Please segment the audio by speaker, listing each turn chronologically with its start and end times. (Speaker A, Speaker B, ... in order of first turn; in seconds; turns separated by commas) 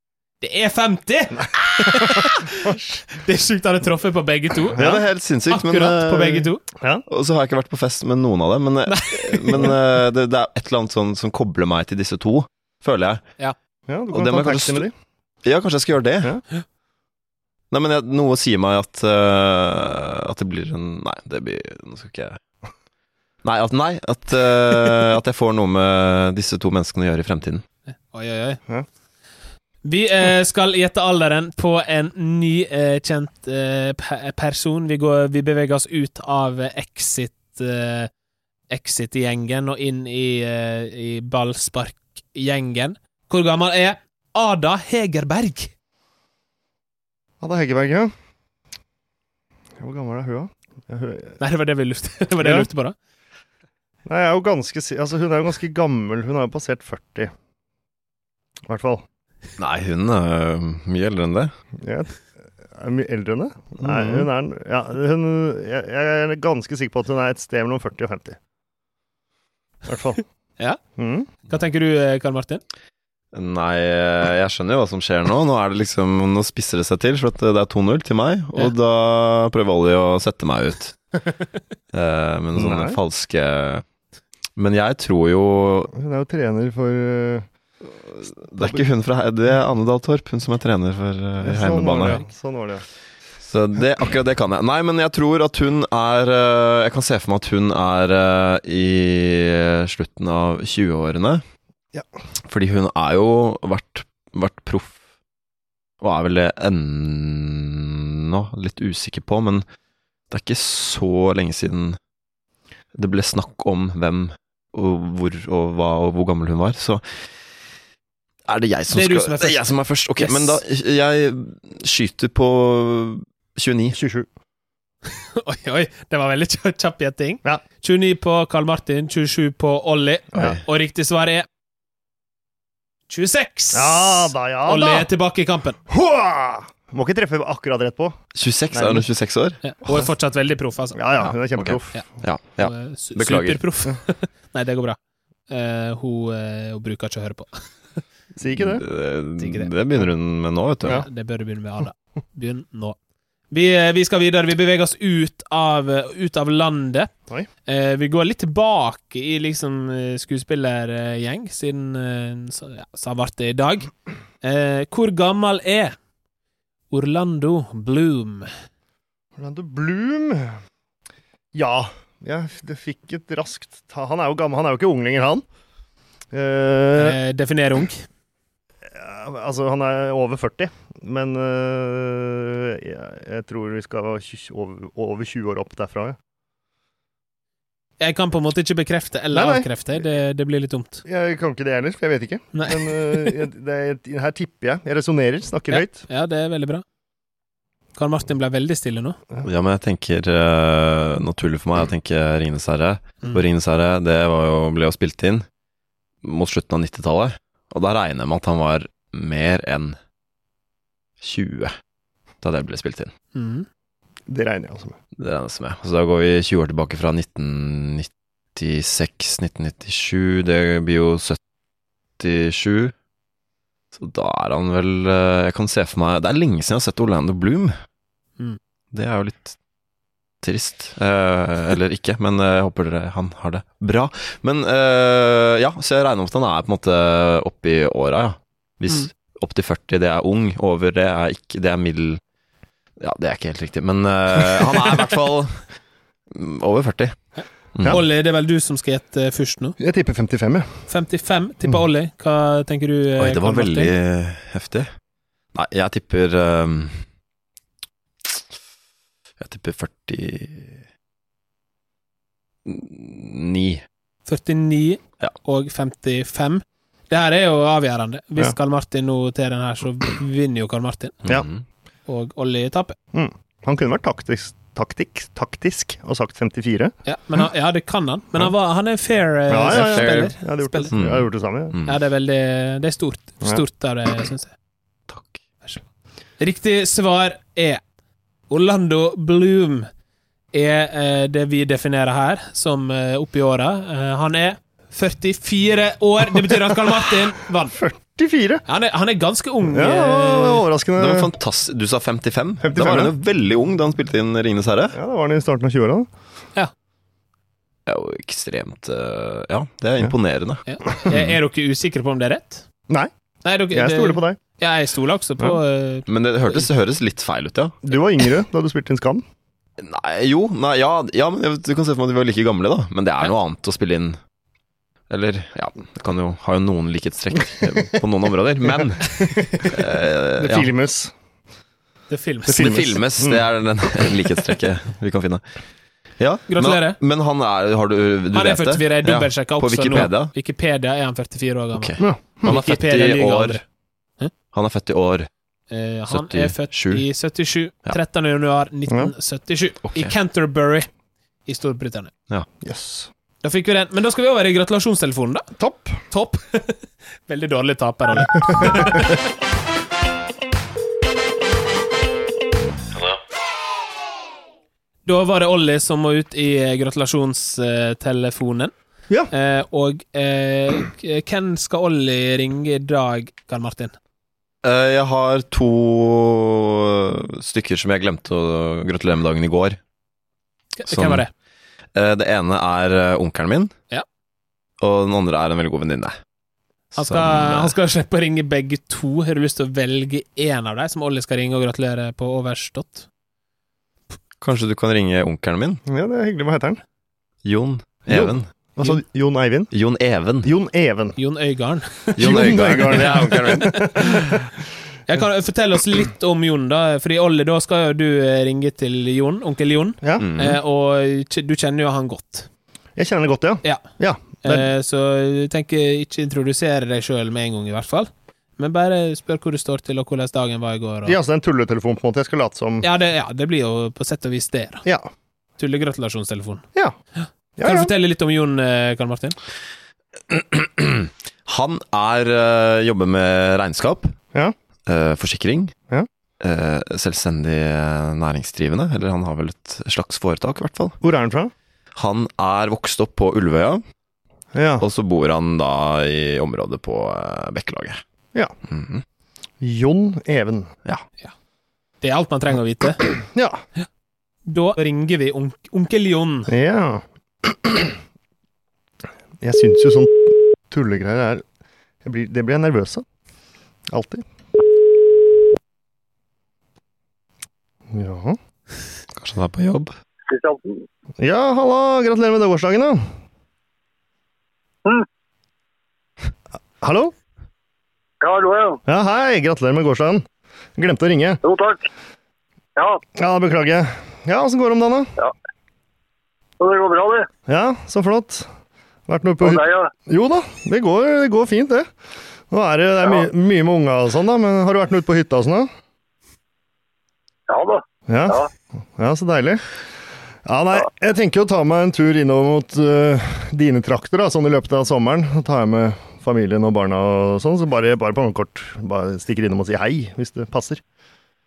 Speaker A: 0.4-4.8, Speaker B: 1.4-2.0, Speaker C: 4.7-6.5, Speaker B: 4.8-5.0, Speaker A: 5.5-6.6, Speaker C: 7.1-13.2, Speaker A: 8.9-9.7, Speaker B: 13.9-14.9, Speaker C: 14.1-14.8, Speaker C: 15.4-16.3, Speaker C: 17.7-22.4, Speaker C: 23.4-27.6, Speaker A: 28.1-28.6, Speaker A: 29.8-38.1, Speaker A: 38.7-45.7, Speaker B: 47.4-48.1, Speaker B: 49.8-51.4, Speaker A: 51.4-52.9, Speaker B: 52.4-52.7, Speaker B: 54.0-57.3, Speaker B: 58.6-59.0, Speaker C: 59.6-61.5, Speaker B: 61.8-68.4, Speaker C: 63.8-64.3, Speaker B: 69.8-70.2, Speaker B: 71.0-71.3, Speaker A: 71.5-72.6, Speaker C: 73.3-81.0, Speaker C: 81.9-83.8, Speaker B: 82.5-83.0, Speaker C: 84.5-85.9, Speaker B: 85.9-87.5, Speaker C: 88.1-92.2, Speaker B: 91.4-92.8, Speaker C: 93.4-101.4, Speaker C: 102.5-105.0, Speaker C: 106.0-109.6, Speaker C: 110.3-112.0, Speaker C: 112.9-117.0, Speaker C: 118.5-124.0, Speaker A: 118.9-119.6, Speaker A: 120.2-120.6, Speaker B: 123.9-124.3, Speaker A: 125.2-131.4, Speaker A: 133.1-135.8, Speaker B: 133.7-135.1, Speaker B: 135.9-138.2, Speaker C: 138.3-140.0, Speaker B: 138.7-139.1, Speaker A: 139.6-141.0, Speaker B: 140.9-141.9, Speaker C: 141.6-143.6, Speaker A: 142.6-145.0, Speaker A: 145.5-147.5, Speaker B: 148.3-148.8, Speaker C: 148.7-151.0, Speaker A: 149.4-149.7, Speaker A: 150.9-153.0, Speaker A: 153.5-157.1, Speaker A: 157.7-163.9, Speaker A: 164.4-165.9, Speaker A: 166.9-168.5, Speaker B: 169.4-170.5, Speaker B: 171.5-175.4, Speaker B: 176.3-177.2, Speaker A: 176.9-178.1, Speaker B: 178.9-186.2, Speaker A: 188.0-191.0, Speaker B: 189.3-189.7, Speaker B: 191.0-196.0, Speaker A: 192.5-193.4, Speaker A: 195.7-196.8, Speaker A: 197.9-199.2, Speaker C: 199.4-205.4, Speaker C: 206.2-210.0, Speaker C: 211.2-211.7, Speaker C: 212.4-213.1, Speaker A: 213.3-213.7, Speaker B: 214.3-214.9, Speaker C: 215.2-221.4, Speaker C: 222.2-222.9, Speaker C: 223.9-227.7, Speaker C: 228.9-229.5, Speaker C: 230.4-242.2, Speaker C: 243.0-245.6, Speaker C: 246.3-247.1, Speaker A: 247.4-249.8, Speaker C: 247.7-248.0, Speaker B: 249.8-250.7, Speaker A: 250.9-253.9, Speaker C: 253.2-254.9, Speaker C: 255.5-257.0, Speaker C: 259.4-260.8, Speaker C: 262.6-263.8, Speaker A: 264.2-271.2, Speaker C: 271.2-271.6, Speaker A: 272.1-272.9, Speaker B: 273.1-276.9, Speaker A: 277.1-280.9, Speaker B: 279.5-281.7, Speaker C: 279.7-280.3, Speaker C: 280.9-282.0, Speaker A: 281.9-284.5, Speaker C: 285.1-285.4, Speaker A: 286.4-287.8, Speaker A: 288.5-289.9, Speaker A: 290.5-297.8, Speaker B: 297.7-298.6, Speaker A: 298.7-300.6, Speaker B: 299.7-301.3, Speaker C: 301.0-304.9, Speaker B: 302.6-303.1, Speaker B: 304.9-306.1, Speaker C: 307.9-311.3, Speaker A: 310.6-312.6, Speaker A: 313.4-316.7, Speaker B: 313.7-314.4, Speaker C: 316.1-317.8, Speaker B: 317.8-319.2, Speaker C: 319.8-324.2, Speaker C: 325.1-330.7, Speaker B: 329.2-329.7, Speaker B: 330.4-331.1, Speaker A: 332.1-332.9, Speaker B: 332.5-333.4, Speaker C: 332.5-335.4, Speaker C: 336.2-340.3, Speaker A: 336.5-337.0, Speaker A: 338.3-343.6, Speaker C: 341.7-343.6, Speaker B: 342.0-342.5, Speaker C: 344.5-345.3, Speaker A: 345.7-350.9, Speaker C: 346.1-347.0, Speaker C: 349.8-350.1, Speaker A: 351.4-352.1, Speaker B: 352.6-353.1, Speaker A: 353.4-355.5, Speaker B: 355.6-356.0, Speaker A: 356.1-359.2, Speaker A: 365.0-368.7, Speaker A: 369.3-373.9, Speaker C: 374.6-379.8, Speaker A: 380.8-381.3, Speaker C: 380.9-381.2, Speaker C: 381.9-383.7, Speaker C: 384.8-386.1, Speaker A: 386.9-393.1, Speaker C: 387.0-387.7, Speaker C: 394.4-395.8, Speaker B: 395.9-396.8, Speaker C: 397.4-398.5, Speaker B: 398.1-399.7, Speaker C: 399.7-400.5, Speaker B: 400.4-401.1, Speaker A: 401.2-402.3, Speaker C: 402.2-404.0, Speaker B: 402.2-404.4, Speaker A: 403.7-404.1, Speaker A: 405.1-412.5, Speaker B: 410.0-410.3, Speaker C: 410.2-410.6, Speaker B: 412.9-414.7, Speaker A: 414.4-421.2, Speaker B: 421.0-422.9, Speaker A: 422.8-424.8, Speaker A: 425.6-426.6, Speaker A: 427.1-429.4, Speaker B: 427.6-427.9, Speaker C: 430.3-434.1, Speaker C: 434.9-435.7, Speaker C: 436.4-440.9, Speaker B: 441.0-441.5, Speaker C: 441.9-443.8, Speaker B: 444.5-444.8, Speaker C: 444.8-448.0, Speaker C: 448.7-449.0, Speaker B: 449.6-450.7, Speaker A: 452.0-453.0, Speaker B: 453.3-453.6, Speaker A: 454.5-456.5, Speaker B: 456.5-457.9, Speaker B: 459.4-461.4, Speaker B: 462.0-463.0, Speaker B: 463.9-464.2, Speaker B: 467.9-468.4, Speaker C: 469.1-469.9, Speaker D: 470.3-470.8, Speaker B: 471.2-473.1, Speaker B: 476.8-477.1, Speaker D: 478.2-478.8, Speaker B: 478.9-480.2, Speaker B: 480.8-481.4, Speaker D: 481.4-481.8, Speaker D: 482.8-483.0, Speaker B: 483.1-485.1, Speaker D: 486.6-487.3, Speaker B: 487.5-488.5, Speaker B: 489.1-491.9, Speaker D: 489.4-489.9, Speaker B: 492.5-495.7, Speaker D: 497.5-498.5, Speaker B: 498.1-498.4, Speaker B: 498.9-499.6, Speaker B: 500.4-510.8